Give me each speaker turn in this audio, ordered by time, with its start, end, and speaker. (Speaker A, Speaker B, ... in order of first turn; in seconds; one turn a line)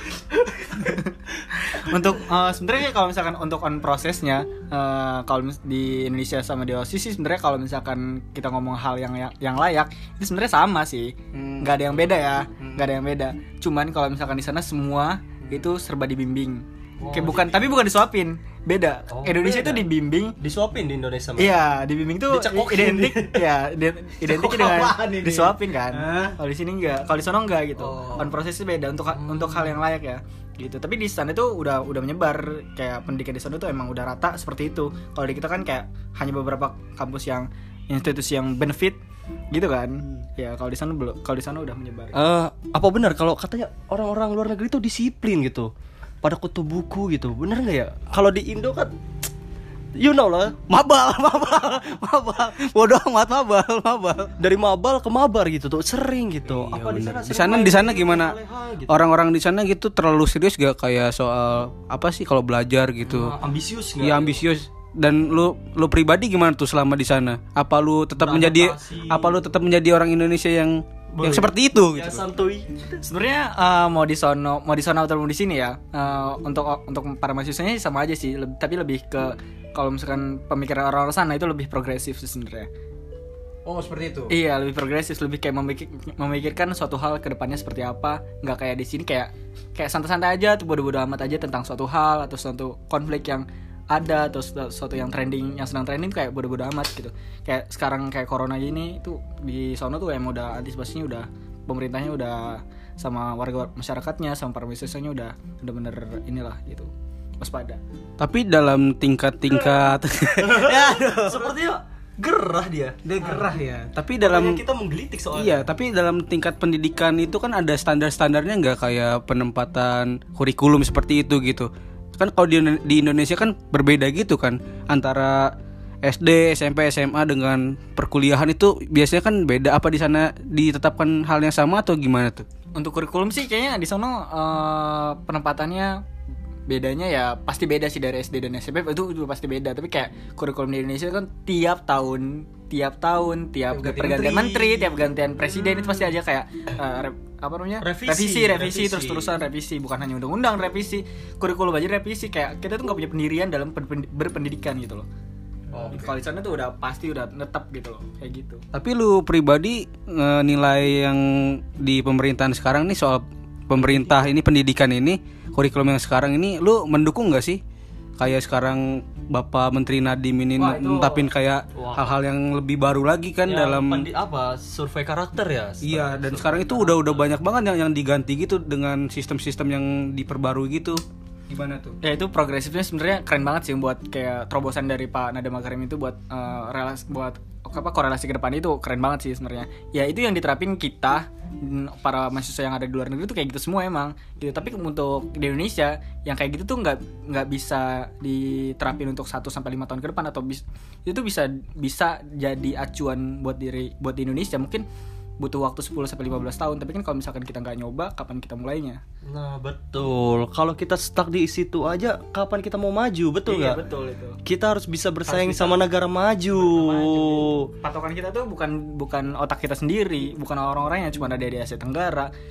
Speaker A: 0.8-20.3
Speaker B: 11.3-11.9
Speaker B: 12.6-12.8
Speaker C: 17.0-17.8
Speaker C: 19.1-19.9
Speaker C: 20.4-21.6
Speaker A: 21.4-39.0
Speaker C: 22.3-23.4
Speaker B: 24.2-26.4
Speaker B: 27.8-28.3
Speaker C: 29.1-29.8
Speaker A: 39.5-42.2
Speaker C: 42.1-45.7
Speaker C: 46.2-48.9
Speaker C: 50.0-50.5
Speaker B: 50.7-54.3
Speaker C: 54.4-59.0
Speaker B: 56.5-58.4
Speaker B: 58.9-63.3
Speaker C: 63.0-64.4
Speaker B: 64.0-72.2
Speaker C: 68.2-69.4
Speaker C: 71.1-72.7
Speaker A: 73.0-82.7
Speaker B: 83.6-84.3
Speaker A: 84.3-106.9
Speaker A: 107.4-107.8
Speaker B: 108.2-111.5
Speaker C: 110.4-113.5
Speaker B: 113.0-114.6
Speaker C: 114.2-115.7
Speaker B: 115.3-132.4
Speaker A: 132.8-136.0
Speaker A: 136.7-155.1
Speaker B: 143.7-145.0
Speaker C: 145.7-146.1
Speaker C: 147.8-149.3
Speaker B: 155.7-156.2
Speaker C: 155.7-156.0
Speaker A: 155.9-158.6
Speaker B: 158.7-167.6
Speaker C: 163.7-164.2
Speaker B: 168.2-174.1
Speaker A: 170.6-171.2
Speaker C: 171.7-172.1
Speaker C: 173.5-177.3
Speaker B: 175.8-182.0
Speaker A: 182.0-204.8
Speaker A: 205.4-209.0
Speaker C: 209.2-213.8
Speaker A: 213.5-214.4
Speaker C: 214.4-217.7
Speaker A: 215.3-215.8
Speaker A: 216.6-222.3